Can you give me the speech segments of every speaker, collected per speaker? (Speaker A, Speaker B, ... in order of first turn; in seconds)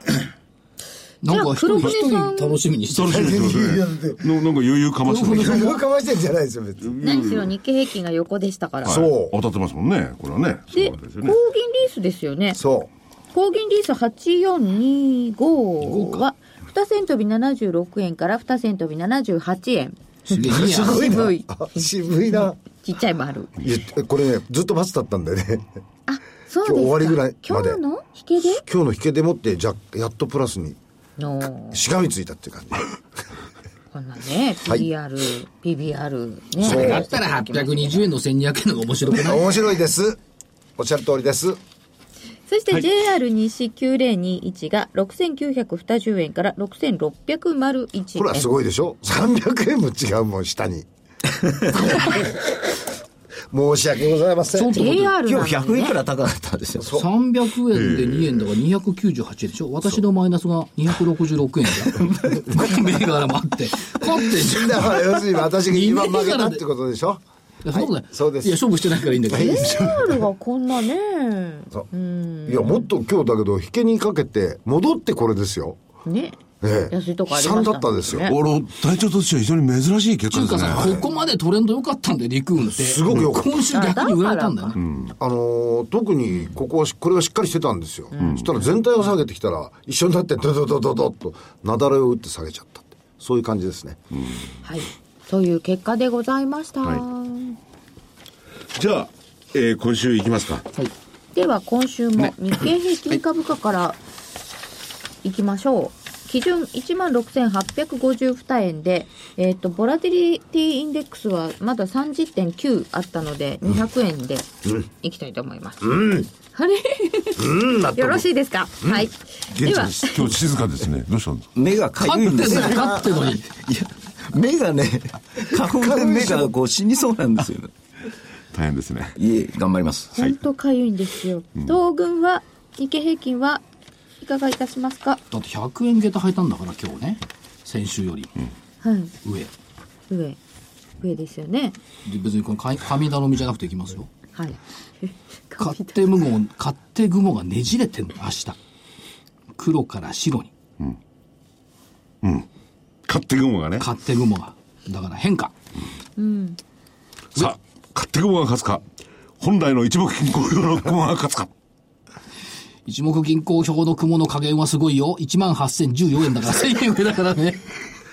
Speaker A: 1.2-3.3, 5.0-5.8, 15.8-16.3, 20.3-21.3, 36.6-39.5, 54.6-55.1, 56.9-66.6, 67.6-69.8, 80.3-84.8, 122.0-123.5, 135.3-138.3, 139.2-139.5, 142.1-144.1, 145.6-148.6, 149.6-150.5, 153.8-155.5, 162.9-167.7
Speaker B: 1.3-2.6, 7.0-9.0, 10.7-12.6, 13.3-23.5, 26.1-28.6, 31.2-31.8, 33.9-38.0, 42.5-48.5, 54.6-56.0, 69.3-72.9, 76.0-76.4, 76.9-78.3, 83.7-84.8, 88.1-88.6, 94.6-97.6, 101.3-104.0, 105.2-120.3, 130.2-133.6, 134.2-135.2, 138.8-139.1, 140.1-140.4, 141.0-141.8, 144.3-146.1, 156.2-156.6
Speaker C: 2.9-5.7, 6.9-7.5, 8.8-11.4, 57.7-58.5, 78.2-81.0, 84.8-85.1, 88.2-88.5, 98.7-100.7, 119.5-121.5, 128.5-129.2, 152.2-152.5, 153.1-153.9, 157.4-158.8, 159.4-161.5
Speaker D: 3.1-4.4, 5.2-7.0, 8.9-9.4, 12.5-12.9, 20.4-22.6, 23.6-25.7, 26.6-27.8, 28.6-30.8, 31.7-32.9, 36.6-37.1, 39.1-40.2, 40.8-41.6, 48.2-50.9, 51.6-52.5, 53.5-54.9, 56.8-57.1, 64.3-67.2, 67.7-68.6, 69.3-70.2, 72.5-75.8, 76.6-78.3, 80.8-81.0, 82.7-83.7, 85.2-94.0, 115.8-116.3, 117.4-118.3, 125.6-126.5
Speaker E: 55.2-56.9, 62.0-62.4, 121.6-127.7, 129.2-130.1